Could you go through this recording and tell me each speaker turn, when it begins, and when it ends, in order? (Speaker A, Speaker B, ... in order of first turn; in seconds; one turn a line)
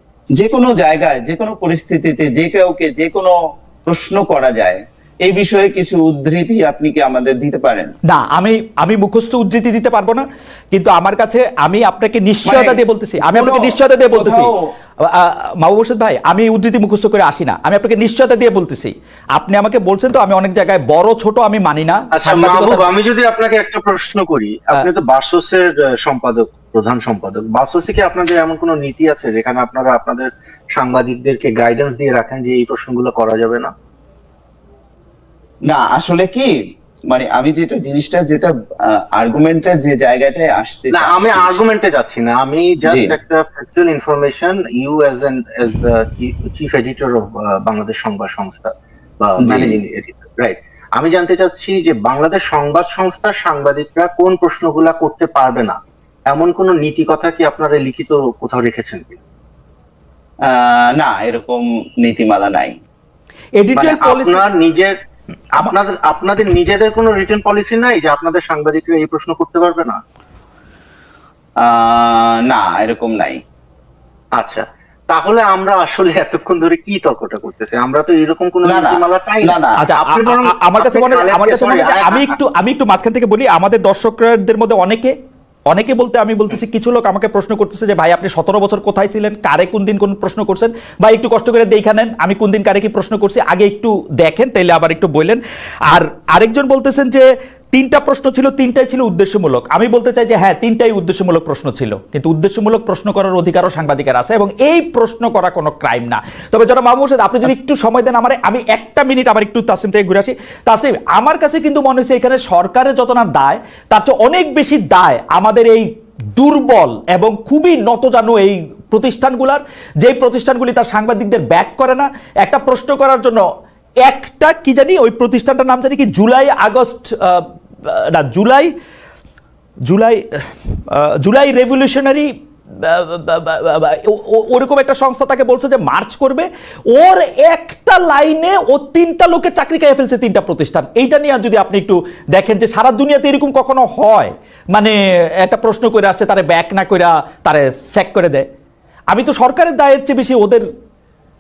Speaker A: 0.3-3.4
Speaker A: 3.9-7.9
Speaker B: 8.1-14.5
Speaker A: 12.4-14.7
Speaker B: 15.0-22.9
Speaker C: 22.1-33.7
Speaker A: 35.7-36.5
Speaker A: 37.1-41.6
Speaker C: 40.9-55.8
Speaker A: 42.9-43.2
Speaker A: 49.4-49.8
Speaker C: 56.3-59.2
Speaker A: 60.5-62.8
Speaker B: 63.6-64.4
Speaker C: 63.8-64.9
Speaker C: 65.6-70.0
Speaker A: 71.6-73.4
Speaker C: 74.4-82.3
Speaker A: 78.7-79.8
Speaker B: 79.8-85.2
Speaker B: 85.7-123.5
Speaker B: 124.0-128.7
Speaker B: 129.9-148.5
Speaker B: 149.1-150.7